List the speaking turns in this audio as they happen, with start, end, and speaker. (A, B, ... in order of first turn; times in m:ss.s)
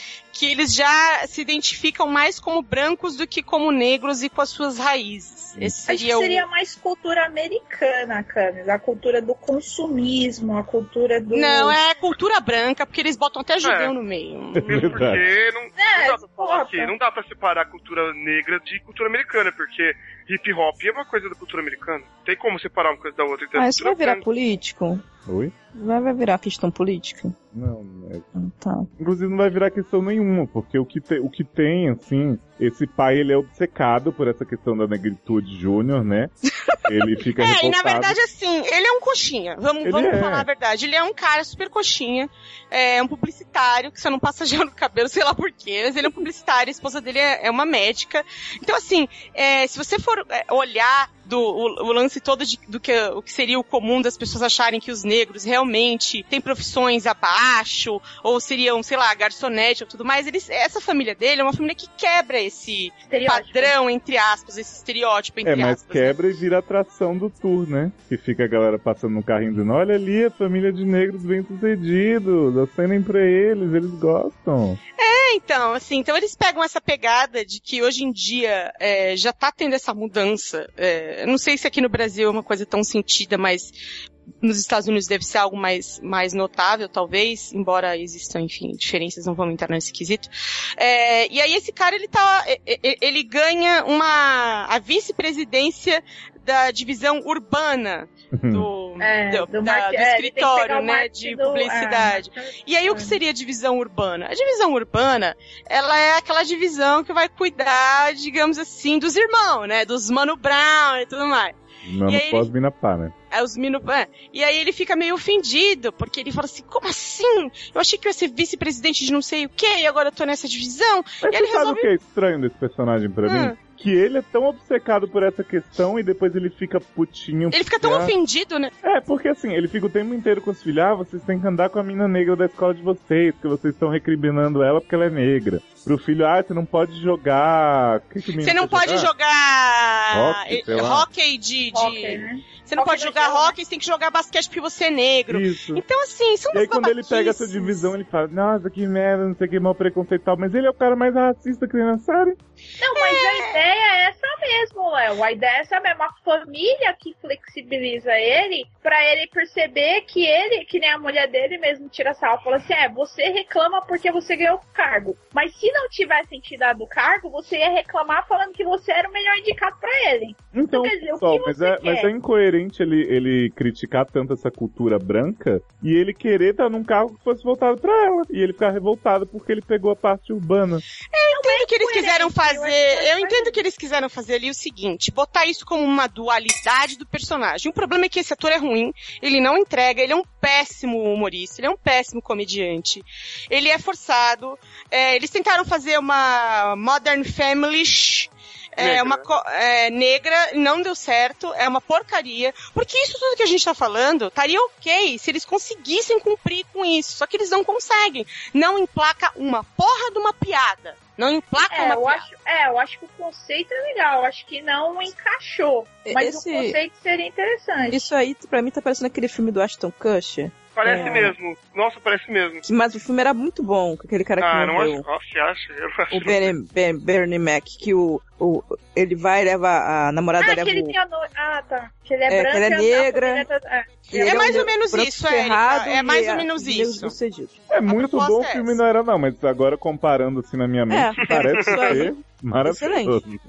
0:00.3-0:06.4 A
0:05.9-0:11.8 B
0:11.3-0:14.8 A
0:13.6-0:14.0 C
0:14.6-0:15.3 D
0:14.7-0:24.2 C
0:15.8-0:16.9 B
0:23.6-0:25.0 E
0:25.3-0:25.6 D
0:25.7-0:27.4 E
0:27.5-0:28.3 D
0:28.4-0:28.9 E
0:29.0-0:36.3 D
0:36.8-0:38.2 D
0:37.4-1:06.2 A
0:39.8-0:40.5 D
1:03.1-1:03.7 B
1:05.4-1:14.8 D
1:15.0-1:23.7 A
1:24.4-1:51.6 A
1:38.3-1:38.7 D
1:39.0-1:43.2 B
1:51.8-1:53.1 D
1:52.1-1:52.5 A
1:53.3-2:01.9 A
2:01.2-2:08.1 D
2:03.2-2:03.6 A
2:07.5-2:08.7 A
2:08.8-2:19.1 D
2:18.4-2:27.8 A
2:20.1-2:21.1 D
2:21.7-2:23.6 B
2:25.3-2:25.8 D
2:26.5-2:32.4 D
2:32.8-2:52.1 B
2:33.0-2:33.6 A
2:50.5-3:00.8 D
3:01.1-3:32.2 A
3:01.3-3:03.6 B
3:18.8-3:19.3 C
3:31.6-3:38.1 B
3:36.0-3:36.8 E
3:37.9-3:41.4 E
3:40.8-3:42.6 C
3:40.9-3:41.3 B
3:42.6-3:45.0 E
3:44.4-3:46.5 C
3:46.1-3:51.0 E
3:50.4-3:54.7 B
3:52.3-3:53.4 E
3:54.1-3:57.6 E
3:54.2-3:57.1 A
3:57.7-4:03.4 D
3:57.9-3:58.8 A
4:00.9-4:03.2 E
4:01.2-4:02.1 C